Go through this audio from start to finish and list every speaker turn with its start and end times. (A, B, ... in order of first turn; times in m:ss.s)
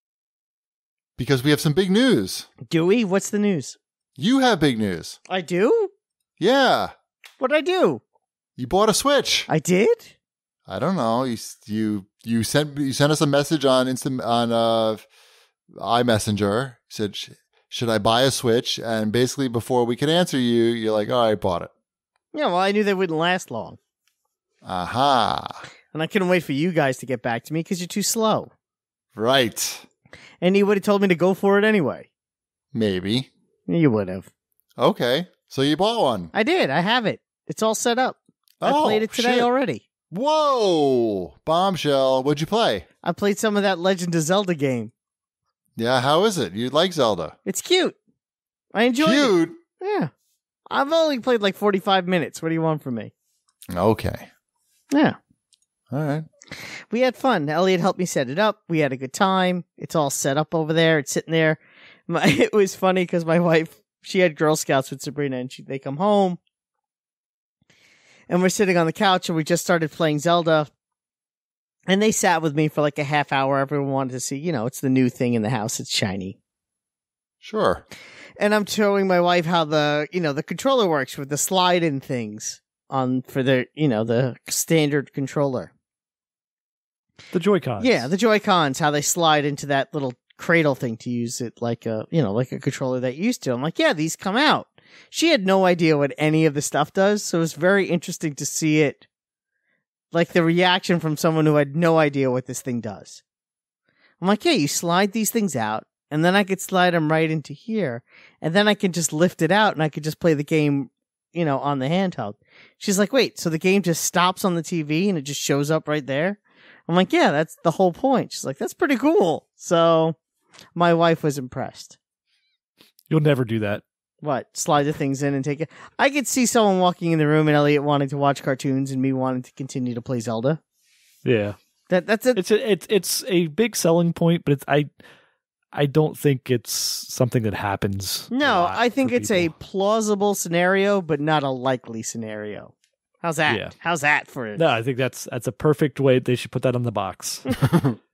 0:01.2-0:02.5 A
0:02.7-0:03.8 B
0:04.2-0:05.2 A
0:05.3-0:05.9 B
0:06.4-0:06.9 A
0:07.4-0:08.0 B
0:08.6-0:09.5 A
0:09.5-0:10.1 B
0:10.7-0:15.1 A
0:15.7-0:21.7 A
0:22.3-0:23.8 B
0:24.6-0:25.6 A
0:25.9-0:28.5 B
0:29.2-0:29.8 A
0:30.4-0:32.1 B
0:32.7-0:33.3 A
0:33.7-0:34.3 B
0:34.8-0:36.3 A
0:36.3-0:39.8 B
0:38.6-0:39.5 A
0:40.1-0:42.8 A
0:43.0-0:44.9 B
0:45.8-0:47.4 A
0:47.5-0:48.0 B
0:48.7-0:50.1 B
0:49.0-0:49.6 A
0:50.7-0:53.1 B
0:53.7-0:54.3 A
0:54.9-0:55.2 B
0:55.9-0:56.3 A
0:56.8-1:06.4 B
1:08.3-1:10.7 B
1:11.9-1:16.4 B
1:17.4-1:17.8 A
1:18.4-1:25.7 B
1:27.3-1:28.1 C
1:27.8-1:39.1 B
1:40.1-1:43.2 B
1:44.2-2:00.2 B
2:00.7-2:02.0 B
2:03.1-2:03.8 C
2:04.2-2:10.6 B
2:11.2-2:11.6 C
2:11.9-2:12.4 B
2:12.3-2:14.9 C
2:15.7-2:19.5 C
2:18.3-2:24.6 B
2:23.5-2:23.8 C
2:24.6-2:27.6 C